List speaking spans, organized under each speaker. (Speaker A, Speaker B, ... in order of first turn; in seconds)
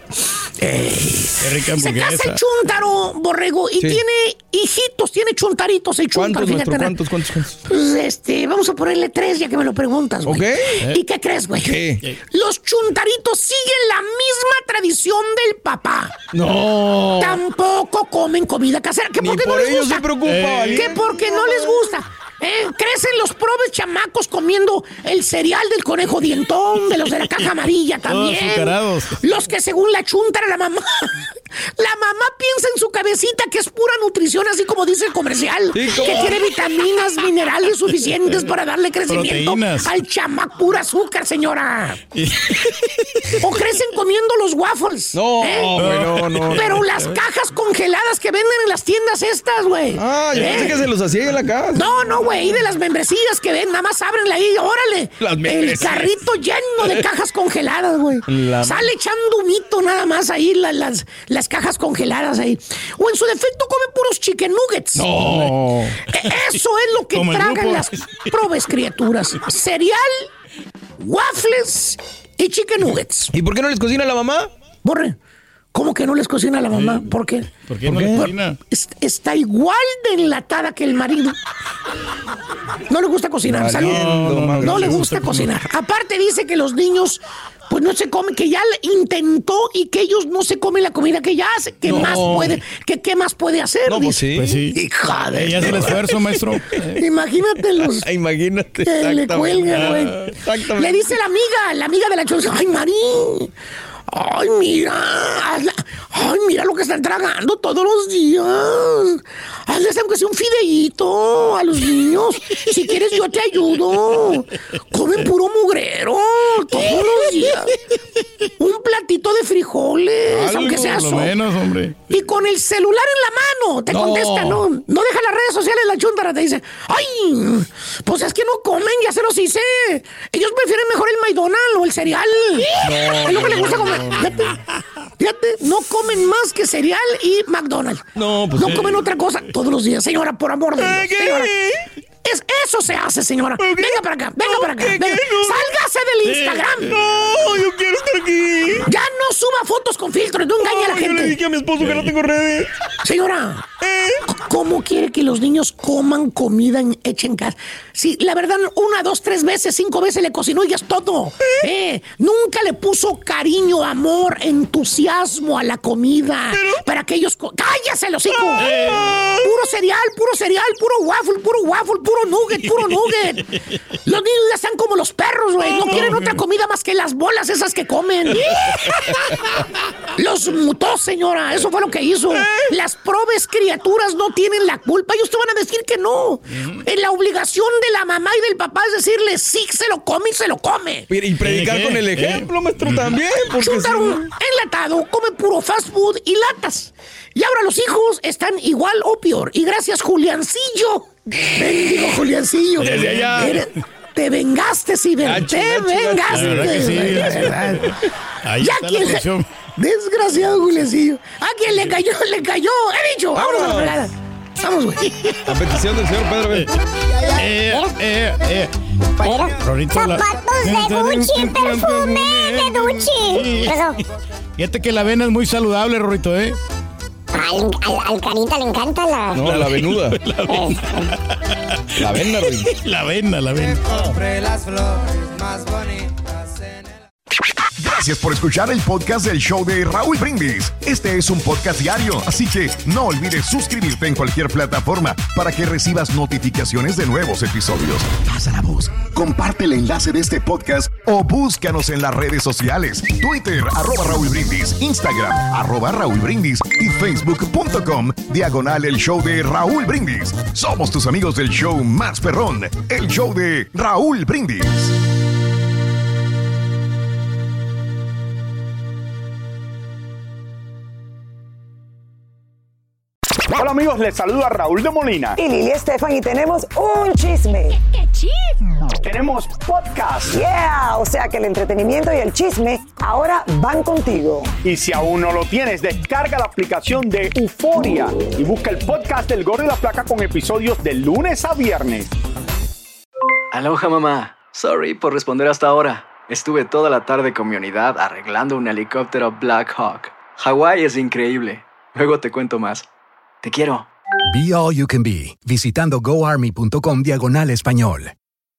Speaker A: 0.6-6.9, 7.7-11.8, 12.3-16.2, 17.2-20.1, 20.6-31.2, 31.8-42.0, 43.4-45.9, 46.5-50.8, 51.7-65.1, 66.1-70.3, 71.0-73.3, 74.8-75.2, 75.7-77.5, 78.7-81.3, 82.9-94.2, 97.0-98.0, 98.8-103.5, 104.1-117.8, 118.6-121.3, 122.1-134.6, 135.2-138.0, 138.5-141.5, 142.2-146.9, 148.8-151.3, 153.0-153.7, 154.3-173.5, 174.0-179.3, 180.2-191.1, 193.6-207.9, 208.6-215.3
Speaker B: 1.4-2.4, 20.2-20.9, 28.1-29.2, 39.0-39.9, 42.1-43.3, 45.8-46.9, 65.2-65.5, 67.1-68.3, 77.6-78.6, 83.7-85.5, 94.3-94.8, 95.3-97.0, 120.7-122.0, 168.6-169.1, 175.8-176.4, 191.4-193.1, 202.8-203.6, 206.3-209.5, 217.3-218.7, 219.6-223.8, 224.6-226.6, 229.4-234.2
Speaker C: 6.1-7.6, 10.2-10.8, 11.6-12.1, 16.3-17.4, 19.2-21.6, 35.7-36.4, 45.1-46.9, 50.0-51.8, 55.2-56.1, 58.3-58.9, 65.0-66.0, 73.3-74.5, 76.7-77.1, 77.8-78.3, 83.5-85.3, 91.8-92.6, 93.8-94.7, 95.7-96.8, 97.8-101.2, 120.3-121.3, 123.9-124.6, 132.8-134.6, 138.1-139.1, 140.8-141.8, 143.6-145.7, 146.3-148.8, 150.6-152.7, 153.8-154.2, 166.5-166.8, 168.4-169.4, 175.7-176.2, 182.3-182.7, 191.1-194.2, 202.8-203.6, 205.2-208.1, 213.3-214.0, 215.4-216.7, 229.3-230.2, 232.0-232.7
Speaker D: 94.7-95.8, 237.8-264.9
Speaker E: 217.2-217.9, 219.2-224.0, 227.3-229.4, 230.5-231.1
Speaker F: 273.5-275.4, 279.0-280.3, 284.6-292.1
Speaker G: 275.4-277.8, 280.3-284.5
Speaker H: 294.3-299.3, 300.1-301.0
Speaker I: 304.3-308.1